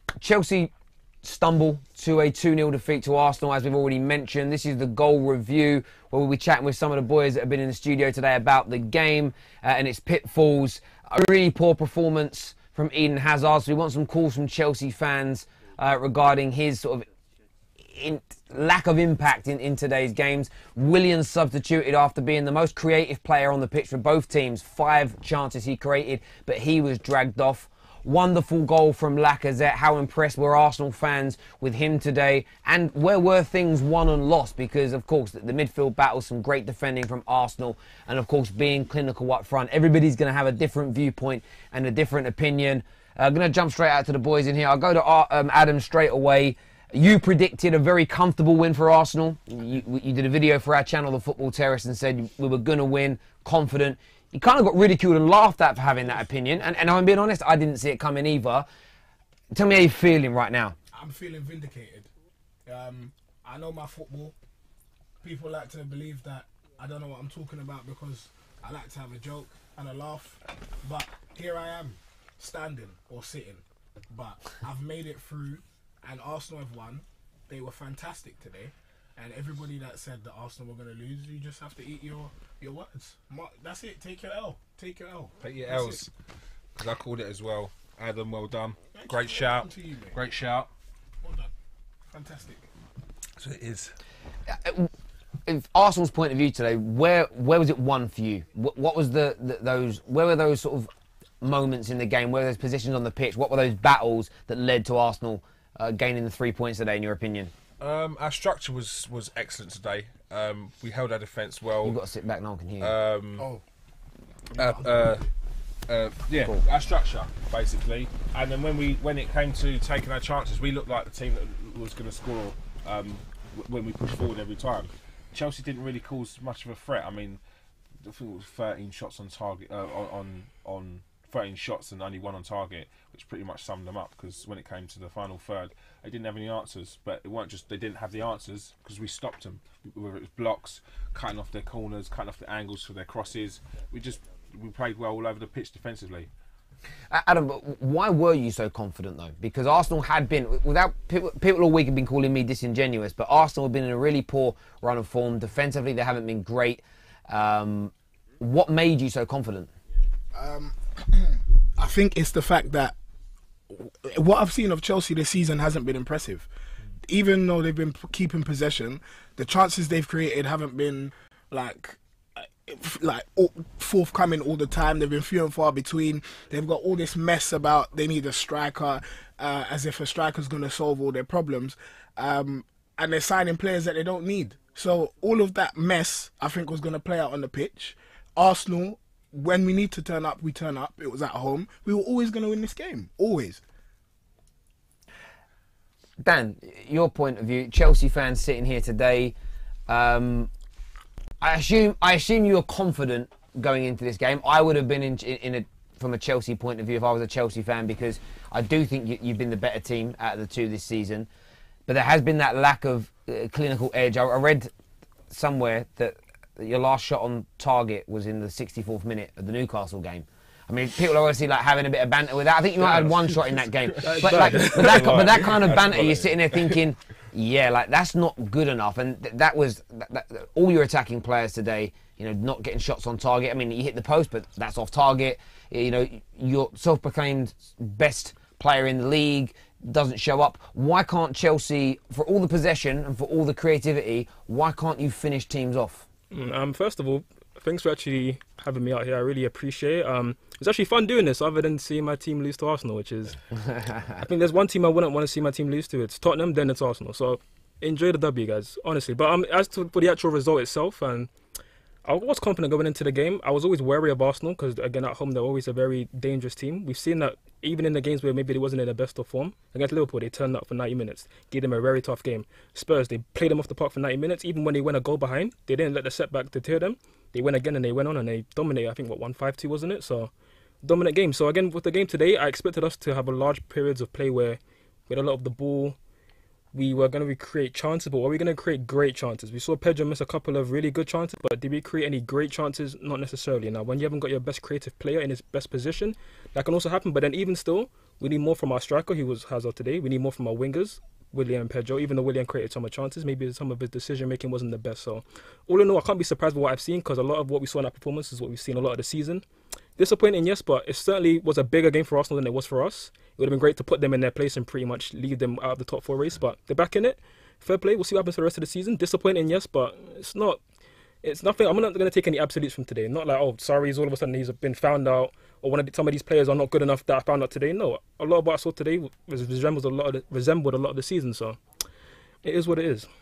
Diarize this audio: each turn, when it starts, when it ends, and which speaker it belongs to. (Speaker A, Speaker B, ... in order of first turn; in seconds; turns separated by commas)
Speaker A: 0.2-0.7, Speaker A: 1.2-17.1, Speaker A: 17.8-58.7, Speaker A: 59.5-60.8, Speaker B: 60.9-62.1, Speaker B: 62.6-64.3, Speaker B: 65.2-86.0, Speaker C: 85.4-86.1, Speaker C: 86.8-90.7, Speaker B: 88.9-90.2, Speaker B: 91.2-91.5, Speaker B: 92.1-92.7, Speaker C: 93.4-93.9, Speaker A: 94.5-94.9, Speaker A: 95.5-100.9, Speaker A: 101.4-107.5, Speaker C: 107.8-112.0, Speaker A: 111.8-112.9, Speaker C: 112.8-113.5, Speaker B: 113.4-113.6, Speaker C: 114.5-115.3, Speaker B: 114.5-115.2, Speaker C: 115.9-127.4, Speaker C: 128.0-146.3, Speaker A: 147.1-159.7, Speaker B: 160.3-162.9, Speaker B: 163.7-166.5, Speaker B: 167.0-193.6, Speaker A: 196.2-199.3, Speaker A: 199.9-200.5, Speaker A: 201.4-211.3, Speaker A: 211.9-214.7, Speaker A: 215.3-246.1, Speaker C: 222.8-226.8, Speaker D: 224.0-225.5, Speaker D: 246.3-253.4, Speaker D: 254.2-261.3, Speaker D: 262.0-280.3, Speaker D: 280.8-286.0, Speaker D: 286.7-309.4, Speaker D: 310.0-320.6, Speaker D: 321.2-331.6, Speaker D: 332.4-333.1